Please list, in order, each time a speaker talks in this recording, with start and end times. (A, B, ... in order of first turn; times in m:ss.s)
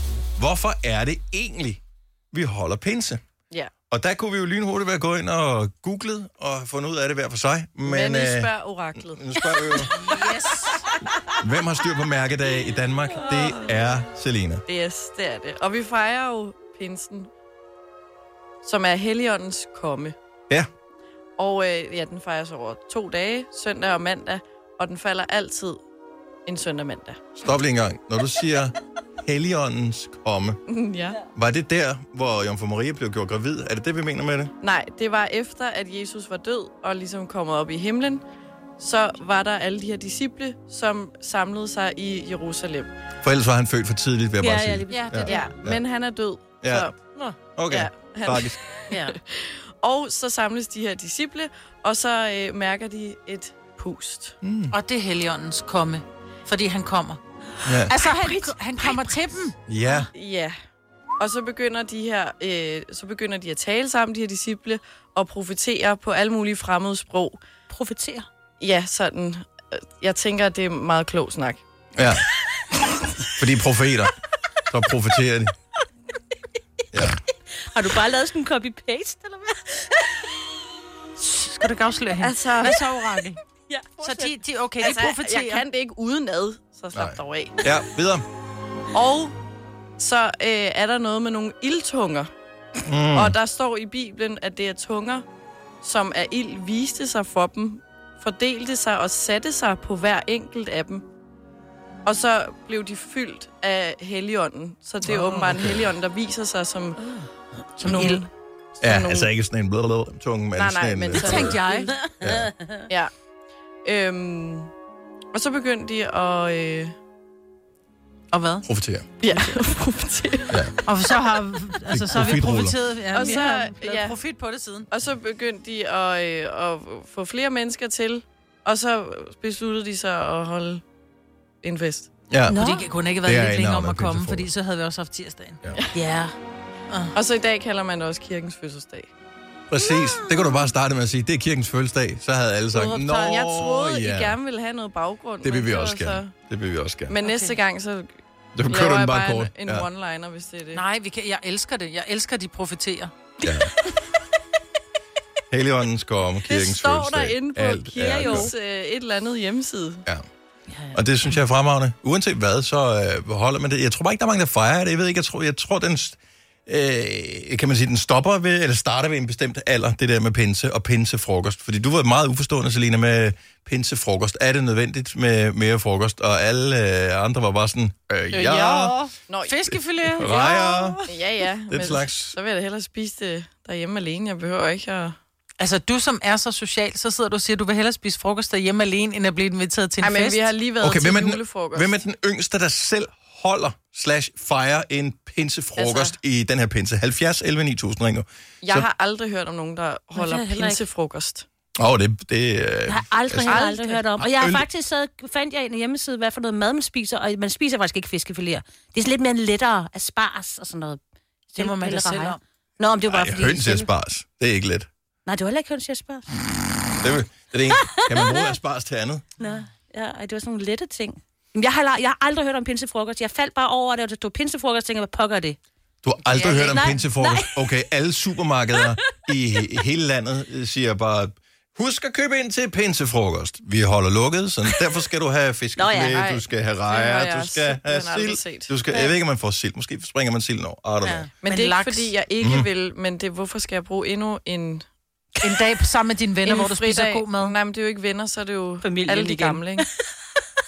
0:00.4-0:01.8 A
0:02.3-0:03.2 A
0:03.9-0:10.0 A
0:07.8-0:09.5 B
0:09.8-0:10.9 C
0:11.3-0:14.6 A
0:14.7-0:17.3 B
0:18.6-0:20.1 B
0:21.4-0:25.8 B
0:26.4-0:27.3 B
0:27.4-0:30.6 A
0:30.7-0:31.2 B
0:31.3-0:34.5 A
0:34.6-0:38.2 B
0:38.8-0:42.9 B
0:43.2-0:45.8 A
0:44.4-0:45.2 D
0:44.9-0:45.5 C
0:45.2-0:46.9 B
0:46.6-0:46.9 A
0:47.6-0:48.6 A
0:47.7-0:54.4 B
0:48.9-0:49.2 D
0:54.4-0:54.8 A
0:54.7-0:57.2 C
0:57.6-0:58.0 A
0:57.8-0:59.6 C
0:58.0-0:59.2 D
0:59.7-1:00.1 A
0:59.9-1:00.5 B
1:01.2-1:07.4 B
1:07.7-1:08.3 D
1:08.6-1:11.6 B
1:12.0-1:12.2 A
1:13.4-1:14.1 A
1:14.7-1:15.5 A
1:16.9-1:17.2 A
1:17.7-1:20.3 D
1:21.2-1:23.4 C
1:22.2-1:22.8 B
1:24.0-1:25.6 C
1:24.0-1:27.7 B
1:26.9-1:28.2 A
1:28.9-1:29.3 B
1:30.0-1:32.3 B
1:32.8-1:33.4 A
1:33.1-1:35.2 B
1:35.8-1:41.0 B
1:42.0-1:47.2 B
1:45.5-1:45.8 A
1:47.8-1:49.3 B
1:47.8-1:48.2 C
1:48.8-1:51.6 A
1:50.5-1:51.9 B
1:51.1-1:51.9 C
1:51.9-1:52.8 D
1:52.2-1:52.5 A
1:53.8-1:54.7 B
1:55.3-1:57.0 B
1:58.3-1:58.6 C
1:58.6-1:59.1 A
1:59.2-2:00.6 B
2:00.8-2:04.9 C
2:01.9-2:02.8 A
2:03.1-2:04.2 B
2:04.9-2:10.8 B
2:11.6-2:12.1 B
2:12.3-2:12.6 A
2:12.5-2:12.8 D
2:12.6-2:15.6 C
2:13.2-2:14.5 A
2:15.9-2:16.3 D
2:17.1-2:19.1 B
2:19.7-2:24.4 A
2:19.9-2:20.3 D
2:22.7-2:23.4 C
2:23.2-2:26.3 B
2:25.4-2:27.2 A
2:27.1-2:30.8 B
2:27.2-2:27.6 C
2:28.5-2:29.9 A
2:30.7-2:33.1 C
2:33.4-2:33.7 A
2:35.5-2:38.5 A
2:36.4-2:40.0 B
2:38.0-2:38.5 D
2:40.9-2:59.0 A
2:58.3-3:01.1 C
2:59.3-2:59.6 B
2:59.7-3:01.0 A
3:01.0-3:05.2 B
3:01.7-3:02.4 A
3:05.6-3:10.5 C
3:10.0-3:12.0 B
3:10.8-3:18.8 A
3:15.8-3:16.2 B
3:18.6-3:21.4 B
3:20.1-3:20.8 D
3:21.8-3:23.6 A
3:22.9-3:31.0 D
3:23.5-3:24.1 B
3:24.3-3:24.7 A
3:31.5-3:33.9 D
3:31.6-3:32.4 C
3:33.1-3:34.9 A
3:35.2-3:36.3 D
3:37.0-3:39.2 A
3:37.7-3:38.5 D
3:39.4-3:45.6 D
3:46.0-4:01.3 A
3:46.3-3:47.7 D
3:48.8-3:49.1 D
3:55.8-3:56.2 D
3:56.1-3:58.8 B
4:01.0-4:01.3 D
4:01.4-4:04.8 B
4:01.4-4:02.1 C
4:02.4-4:02.7 A
4:05.4-4:07.6 C
4:06.4-4:09.8 B
4:08.8-4:09.8 D